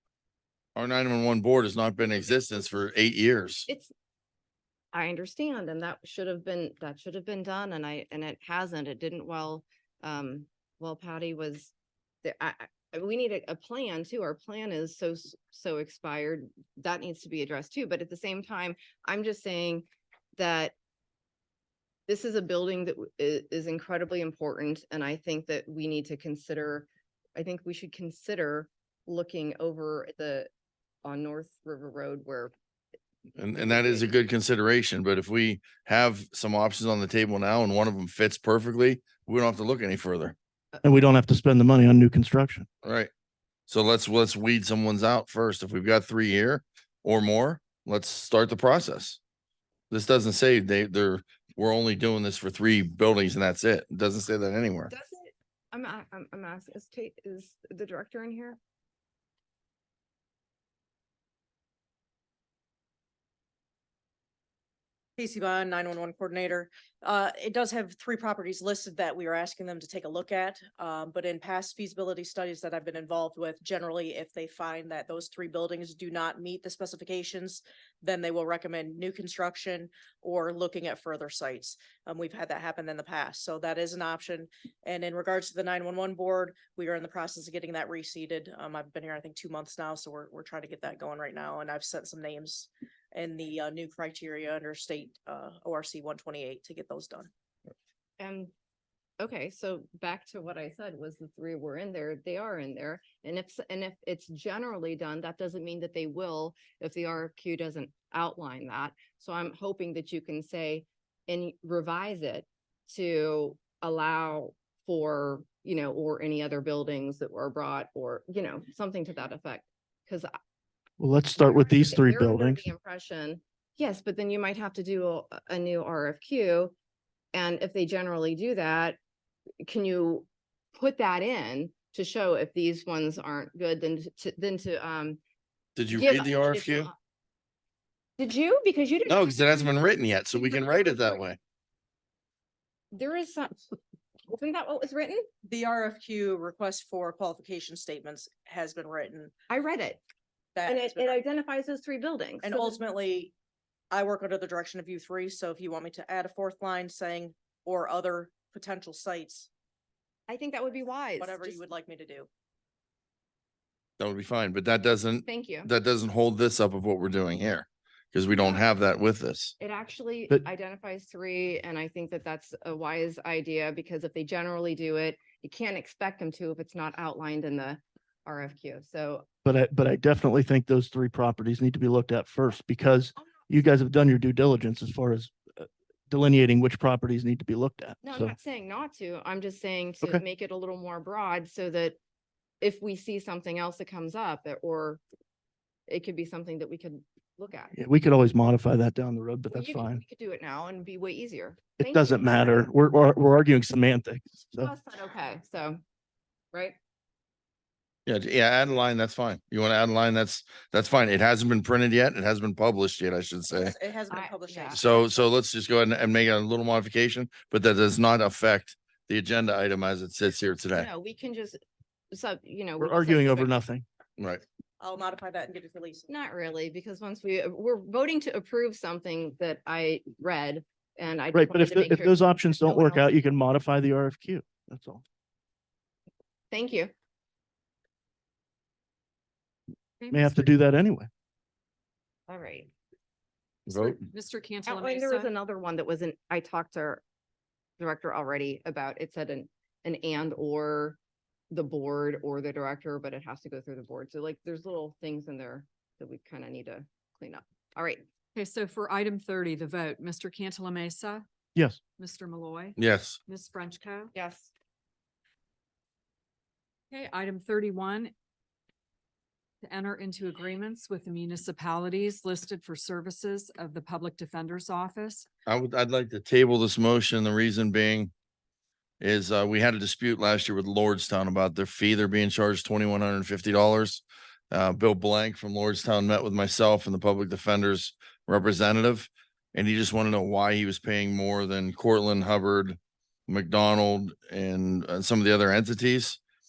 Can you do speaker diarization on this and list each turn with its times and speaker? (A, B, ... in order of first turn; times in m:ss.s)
0:00.8-0:03.7 A
0:03.7-0:03.9 B
0:04.9-0:11.7 B
0:12.2-0:20.7 B
0:22.1-0:30.5 B
0:31.0-0:32.5 B
0:33.4-0:40.4 A
0:33.6-0:34.1 B
0:40.8-0:42.7 C
0:42.8-0:43.1 A
0:43.7-0:49.2 A
0:49.9-0:54.9 A
0:54.9-0:58.6 B
1:05.2-1:37.3 D
1:38.2-1:38.5 B
1:39.2-2:00.3 B
2:01.0-2:02.7 C
2:01.4-2:06.7 B
2:07.3-2:09.0 B
2:09.6-2:15.2 B
2:15.8-2:16.9 A
2:15.9-2:16.9 B
2:18.2-2:19.7 B
2:19.1-2:21.4 A
2:20.3-2:21.2 B
2:22.9-2:23.8 B
2:24.3-2:25.3 B
2:25.4-2:29.3 D
2:29.5-2:30.0 B
2:30.6-2:31.2 D
2:30.7-2:32.8 B
2:32.4-2:33.3 D
2:33.9-2:39.5 D
2:40.3-2:41.6 B
2:41.2-2:42.3 D
2:44.0-2:49.5 A
2:45.3-2:45.7 B
2:48.4-2:48.6 B
2:49.6-2:59.3 B
2:59.4-3:08.3 C
3:08.0-3:12.0 B
3:12.6-3:15.0 B
3:15.9-3:17.7 B
3:17.7-3:20.0 C
3:19.5-3:22.6 B
3:21.8-3:24.7 C
3:24.6-3:25.8 B
3:28.1-3:33.8 A
3:33.5-3:35.0 D
3:34.1-3:34.8 B
3:34.7-3:40.9 A
3:40.7-3:41.6 B
3:42.1-3:43.5 B
3:42.8-3:43.8 C
3:44.2-3:44.4 A
3:44.8-3:46.1 D
3:46.1-3:53.1 B
3:51.3-3:55.0 C
3:56.5-3:56.9 B
4:00.1-4:01.1 C
4:00.2-4:00.4 E
4:02.3-4:02.7 B
4:03.7-4:04.1 A
4:04.2-4:05.3 E
4:04.7-4:07.0 B
4:07.8-4:11.0 B
4:11.5-4:18.0 B
4:18.4-4:21.2 E
4:21.6-4:21.8 C
4:22.0-4:22.8 E
4:22.8-4:23.2 A
4:23.4-4:24.1 E
4:24.1-4:24.5 B
4:26.9-4:28.1 E
4:29.7-4:35.3 E
4:35.5-4:38.1 A
4:39.0-4:52.8 A
4:53.3-4:56.2 A